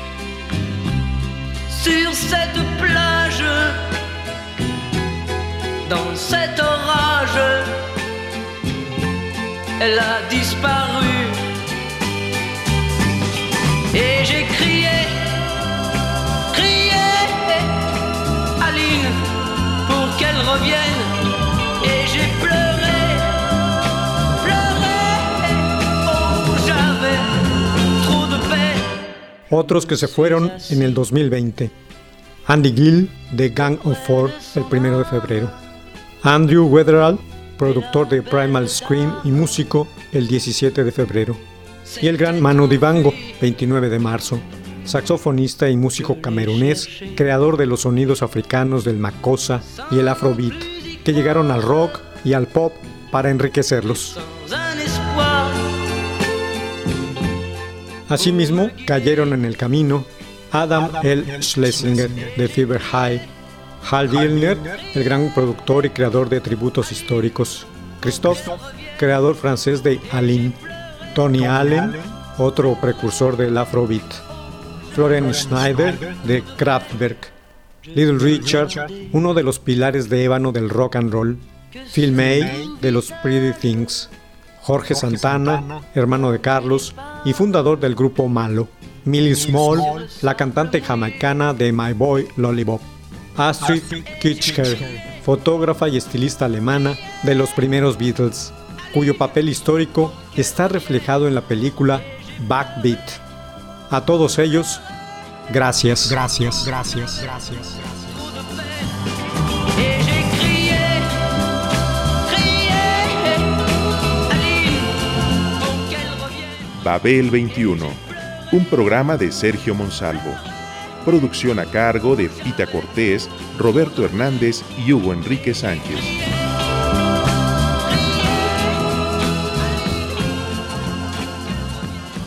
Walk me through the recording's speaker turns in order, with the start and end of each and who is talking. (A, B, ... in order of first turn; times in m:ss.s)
0:01.7-0:03.8 A
0:05.8-0:07.8 A
0:09.8-0:11.5 A
0:13.9-0:15.5 A
0:16.5-0:17.9 A
0:18.6-0:21.2 A
0:21.8-0:23.6 A
0:24.3-0:29.0 A
0:29.5-0:31.7 B
0:29.8-0:30.9 A
0:32.4-0:35.6 B
0:36.2-0:41.4 B
0:41.9-0:43.3 A
0:42.0-0:54.2 B
0:46.0-0:47.2 A
0:54.1-0:55.8 A
0:58.1-1:03.3 B
1:03.8-1:10.6 B
1:11.1-1:14.2 B
1:14.9-1:17.3 B
1:17.9-1:19.0 A
1:17.9-1:43.2 B
1:43.9-1:44.8 B
1:45.5-1:47.8 B
1:48.1-1:48.9 A
1:49.7-1:51.3 A
1:52.2-1:53.7 A
1:54.3-1:56.6 A
1:56.8-2:00.4 C
2:01.0-2:06.1 C